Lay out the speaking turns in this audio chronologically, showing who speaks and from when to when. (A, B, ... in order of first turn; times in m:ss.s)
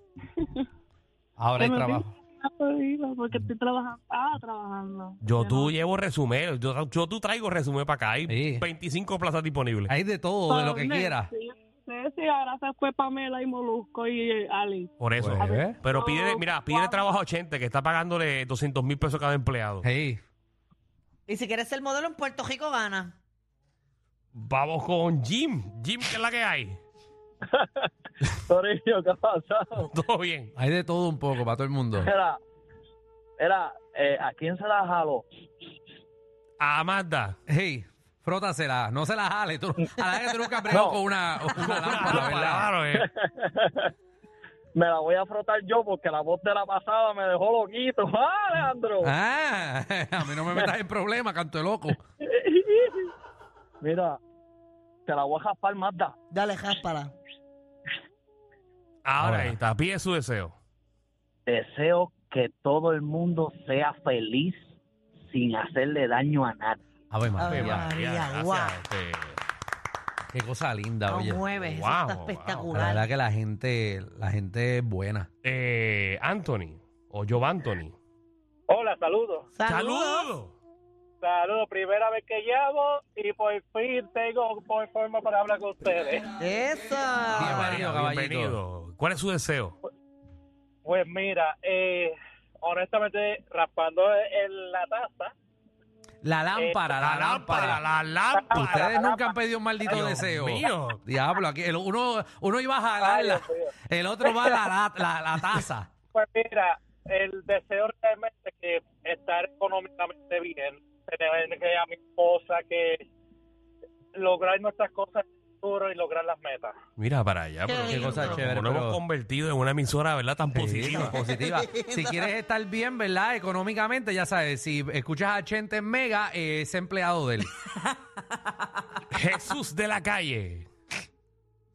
0:01.4-0:02.1 A
0:01.6-0:05.7 B
0:05.2-0:09.9 C
0:08.3-0:08.6 A
0:09.9-0:11.3 A
0:10.5-0:17.2 B
0:15.0-0:19.8 C
0:15.2-0:15.8 A
0:19.8-0:20.2 A
0:21.3-0:23.1 D
0:24.3-0:26.8 C
0:29.8-0:30.5 C
0:30.6-0:32.1 A
0:33.4-0:35.2 E
0:36.6-0:37.4 C
0:37.5-0:42.7 A
0:41.6-0:43.1 C
0:44.8-0:48.9 E
0:49.0-0:52.0 A
0:53.8-0:54.1 E
0:55.1-0:56.0 E
0:56.3-0:57.1 D
0:59.0-1:00.5 C
0:59.2-0:59.6 A
1:01.5-1:04.6 E
1:05.3-1:06.8 E
1:07.1-1:07.8 A
1:07.4-1:08.8 D
1:07.4-1:09.4 C
1:10.3-1:11.4 A
1:11.1-1:13.0 D
1:11.6-1:12.7 C
1:12.7-1:15.3 A
1:15.4-1:17.9 C
1:18.7-1:19.5 F
1:19.5-1:20.3 D
1:19.7-1:20.5 C
1:21.2-1:26.3 F
1:26.4-1:27.6 D
1:27.3-1:29.8 C
1:27.3-1:28.6 A
1:30.8-1:35.3 F
1:36.2-1:37.8 A
1:36.5-1:37.0 F
1:37.0-1:38.6 C
1:38.3-1:40.2 F
1:38.5-1:45.9 A
1:39.9-1:41.0 C
1:43.0-1:43.7 F
1:46.1-1:53.0 F
1:54.1-1:56.8 F
1:57.0-2:01.2 C
1:57.6-1:58.5 D
1:57.9-1:59.0 A
2:00.5-2:07.5 A
2:01.0-2:02.0 D
2:09.1-2:10.7 C